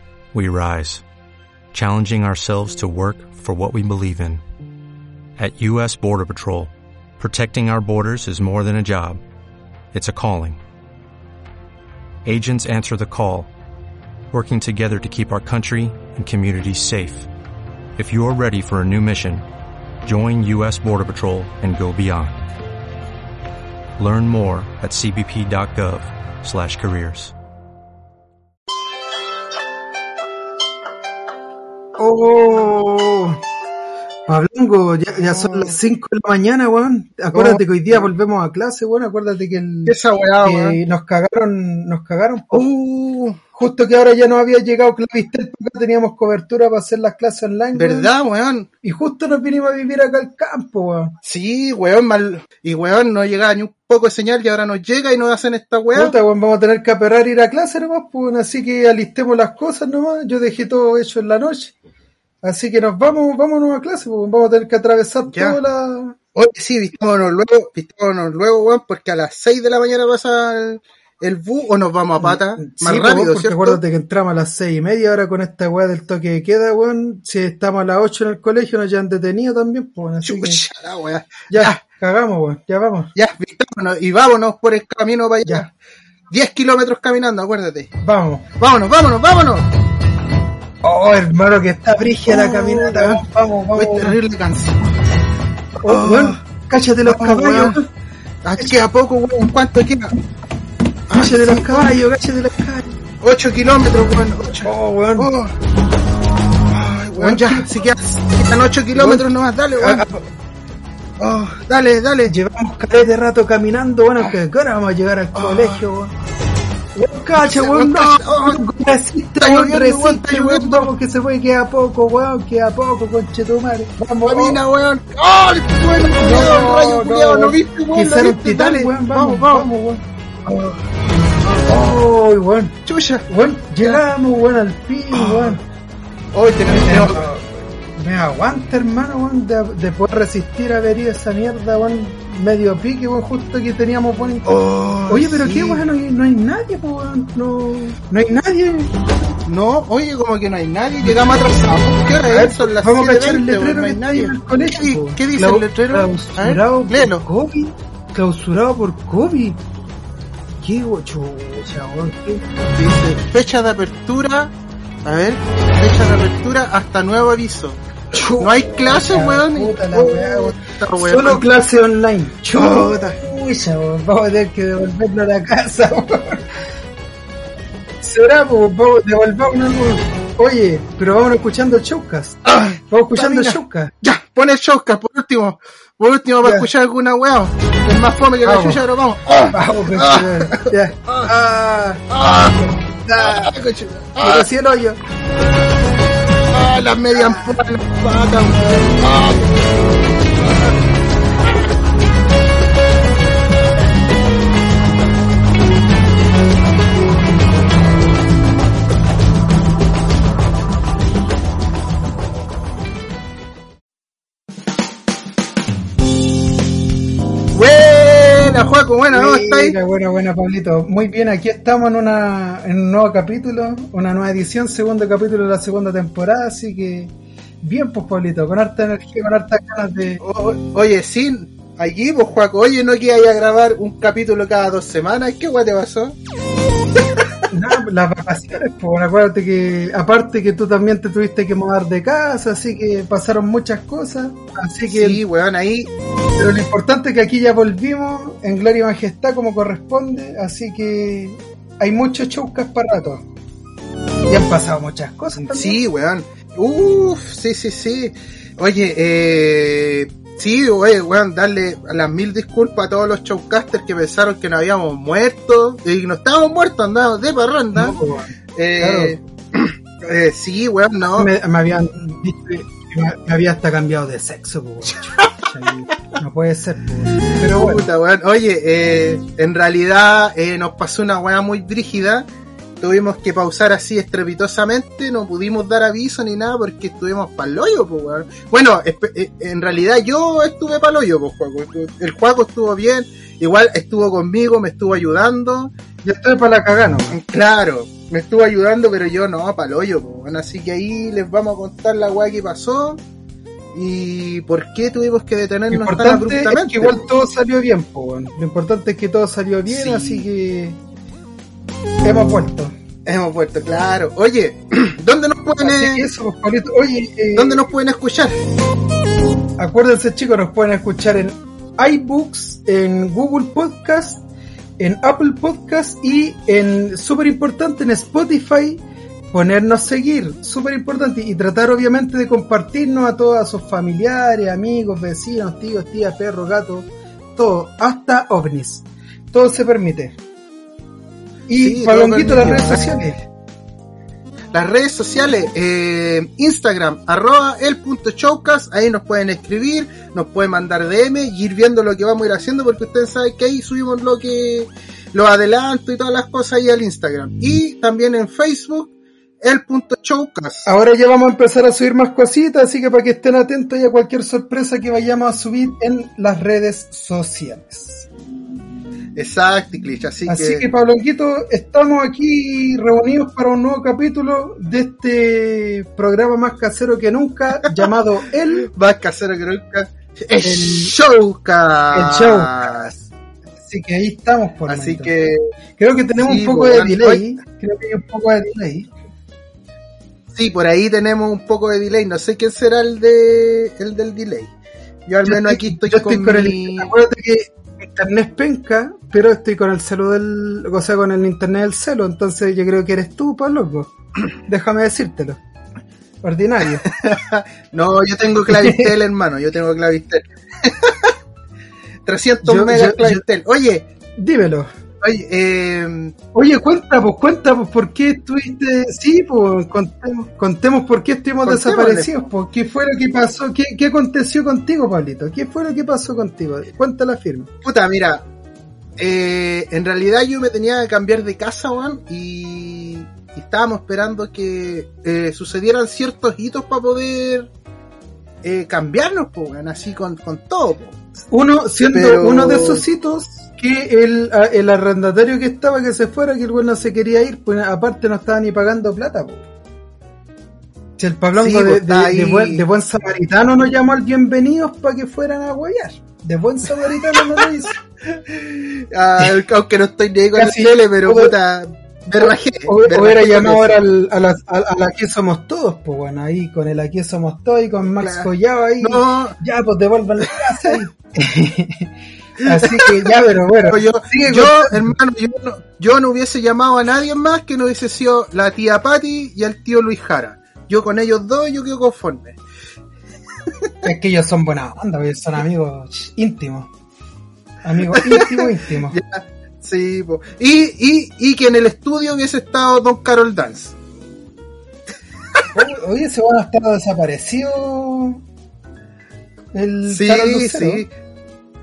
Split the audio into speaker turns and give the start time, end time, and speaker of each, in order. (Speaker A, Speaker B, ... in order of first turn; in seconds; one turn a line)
Speaker A: 0.3-1.0
Speaker A: 1.7-4.4
Speaker A: 5.4-9.2
Speaker A: 9.9-10.6
Speaker A: 12.2-13.5
Speaker A: 14.3-17.3
Speaker A: 18.0-19.4
Speaker A: 20.0-22.4
Speaker A: 24.0-27.3
Speaker B: 32.0-33.4
Speaker B: 34.3-42.7
Speaker C: 35.3-35.8
Speaker C: 37.3-37.6
Speaker C: 39.9-40.8
Speaker C: 42.5-43.4
Speaker B: 43.5-48.1
Speaker C: 47.7-48.7
Speaker B: 48.8-51.1
Speaker C: 51.2-56.2
Speaker B: 55.9-61.7
Speaker B: 62.4-66.2
Speaker C: 65.3-65.6
Speaker C: 66.3-73.8
Speaker B: 72.2-80.6
Speaker C: 80.2-81.8
Speaker B: 81.5-83.1
Speaker C: 83.1-85.7
Speaker C: 86.3-87.9
Speaker B: 88.0-88.5
Speaker C: 88.6-89.7
Speaker B: 90.8-94.2
Speaker C: 92.2-93.2
Speaker C: 93.7-94.8
Speaker B: 95.8-97.9
Speaker C: 95.8-96.4
Speaker C: 97.0-97.8
Speaker C: 98.4-100.1
Speaker C: 101.1-101.9
Speaker B: 101.1-103.0
Speaker C: 103.2-105.6
Speaker B: 104.6-105.3
Speaker C: 106.7-110.0
Speaker B: 107.2-107.8
Speaker B: 108.9-110.3
Speaker C: 111.2-112.3
Speaker B: 112.3-116.1
Speaker C: 115.3-115.8
Speaker B: 116.9-124.6
Speaker C: 117.4-118.6
Speaker C: 119.4-120.9
Speaker C: 124.2-129.7
Speaker B: 126.1-130.0
Speaker C: 130.4-130.8
Speaker C: 131.4-131.8
Speaker B: 131.6-135.6
Speaker C: 132.8-133.2
Speaker C: 135.1-135.6
Speaker C: 136.3-137.3
Speaker B: 136.7-144.6
Speaker C: 144.4-145.8
Speaker B: 145.1-148.9
Speaker C: 149.4-157.2
Speaker B: 152.3-159.6
Speaker B: 160.6-162.6
Speaker C: 162.7-167.8
Speaker B: 168.1-176.6
Speaker C: 168.4-171.5
Speaker C: 172.5-173.2
Speaker B: 178.0-183.9
Speaker C: 182.4-191.3
Speaker B: 186.4-186.7
Speaker B: 188.4-188.8
Speaker B: 189.5-192.1
Speaker C: 192.1-194.5
Speaker B: 193.1-193.5
Speaker B: 194.2-195.0
Speaker C: 196.5-200.8
Speaker C: 217.5-219.8
Speaker B: 219.1-230.2
Speaker C: 230.2-236.2
Speaker B: 237.5-245.2
Speaker C: 244.9-245.9
Speaker B: 246.3-253.2
Speaker B: 254.2-255.8
Speaker C: 255.4-268.0
Speaker B: 267.7-269.2
Speaker C: 268.5-271.3
Speaker B: 271.1-277.9
Speaker C: 277.4-282.3
Speaker C: 282.8-295.7
Speaker B: 296.0-297.2
Speaker C: 297.1-303.0
Speaker C: 303.7-307.0
Speaker B: 305.7-310.8
Speaker C: 309.7-310.3
Speaker B: 312.0-312.8
Speaker C: 313.0-316.1
Speaker B: 315.6-317.7
Speaker C: 317.3-318.4
Speaker B: 319.6-324.2
Speaker B: 324.8-340.2
Speaker B: 341.5-343.2
Speaker C: 341.6-343.0
Speaker C: 344.5-360.6
Speaker B: 360.6-368.1
Speaker C: 369.1-370.7
Speaker B: 370.3-378.7
Speaker C: 377.6-377.9
Speaker C: 378.6-382.9
Speaker B: 380.4-380.9
Speaker B: 381.9-383.0
Speaker B: 383.6-385.1
Speaker C: 384.7-385.5
Speaker B: 385.8-388.9
Speaker C: 386.1-387.2
Speaker C: 390.3-394.5
Speaker C: 395.1-396.9
Speaker B: 395.2-405.4
Speaker B: 406.2-406.9
Speaker C: 406.8-411.1
Speaker B: 408.5-408.9
Speaker C: 412.1-413.9
Speaker B: 412.4-413.2
Speaker B: 414.1-414.7
Speaker C: 415.0-416.1
Speaker B: 416.3-427.5
Speaker C: 421.4-422.3
Speaker C: 427.6-428.2
Speaker C: 429.0-437.5
Speaker C: 438.4-440.9
Speaker B: 441.3-449.4
Speaker C: 441.9-442.8
Speaker B: 451.0-457.8
Speaker C: 451.4-452.6
Speaker C: 457.1-457.5
Speaker C: 458.0-463.7
Speaker B: 460.3-461.3
Speaker B: 462.2-474.9
Speaker C: 468.0-468.3
Speaker C: 468.8-469.4
Speaker C: 472.4-473.1
Speaker C: 473.6-482.4
Speaker C: 483.5-483.7
Speaker B: 483.8-486.7
Speaker B: 487.6-489.0
Speaker C: 487.9-493.8
Speaker B: 495.5-498.2
Speaker B: 499.5-500.8
Speaker C: 499.9-500.9